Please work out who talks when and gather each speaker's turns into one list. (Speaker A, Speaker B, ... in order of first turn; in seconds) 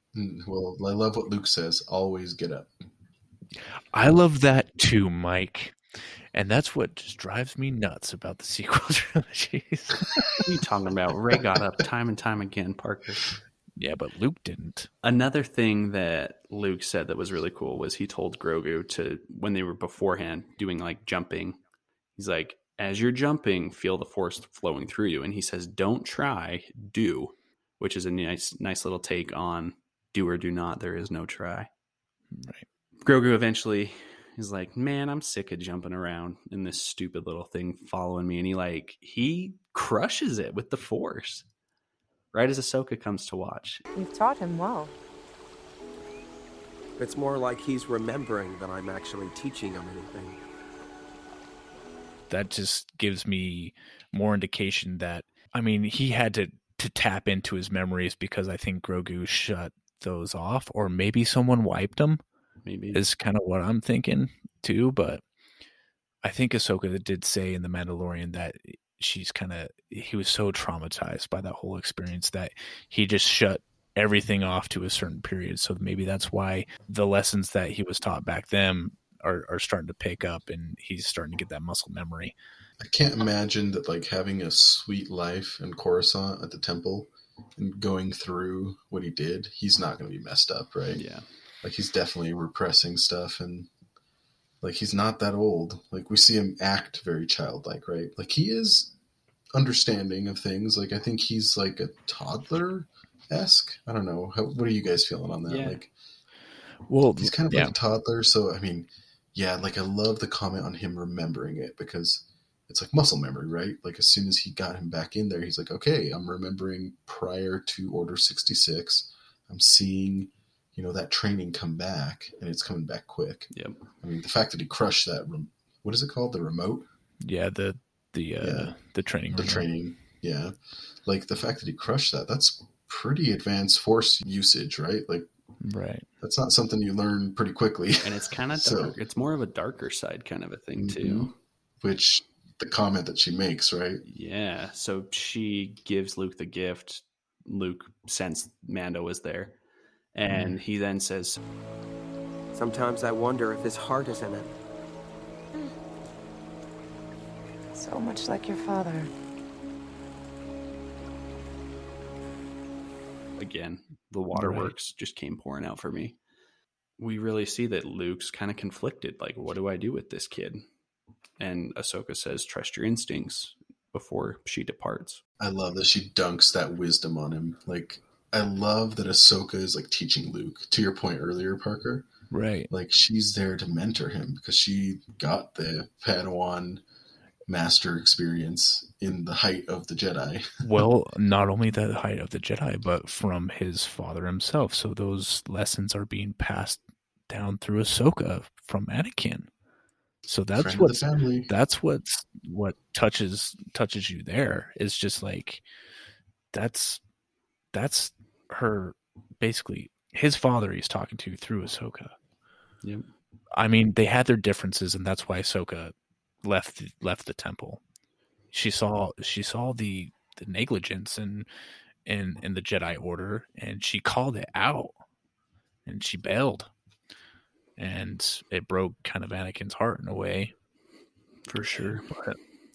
Speaker A: 0.1-2.7, 82.8-91.0, 91.6-93.7, 94.6-98.9, 99.5-105.9, 107.2-126.9, 128.4-128.7, 129.3-135.3, 136.2-139.0, 140.8-144.0, 175.4-182.1, 182.7-186.8, 187.5-190.8, 200.6-201.5
Speaker B: 3.9-5.8, 6.3-10.4, 13.8-14.9, 32.3-32.7, 52.3-62.2, 62.9-65.2, 66.2-82.3, 106.9-107.8, 127.2-129.7, 135.6-136.1, 164.3-164.7, 182.3-182.7, 190.6-199.5, 200.3-205.6, 206.5-207.0, 207.7-212.1, 213.5-215.9, 216.4-217.8, 218.5-221.5, 222.1-224.9, 225.9-226.7, 227.8-230.5, 231.6-232.4
Speaker C: 10.4-13.3, 15.0-21.6, 22.2-31.7, 33.0-41.5, 42.3-43.8, 62.6-63.0, 91.0-91.2, 105.5-105.8, 138.0-141.3, 144.1-149.6, 150.2-151.4, 163.4-166.2, 167.0-170.6, 171.4-175.2, 231.5-232.1
Speaker D: 44.0-44.9, 157.8-159.1
Speaker E: 47.0-50.4, 152.5-154.5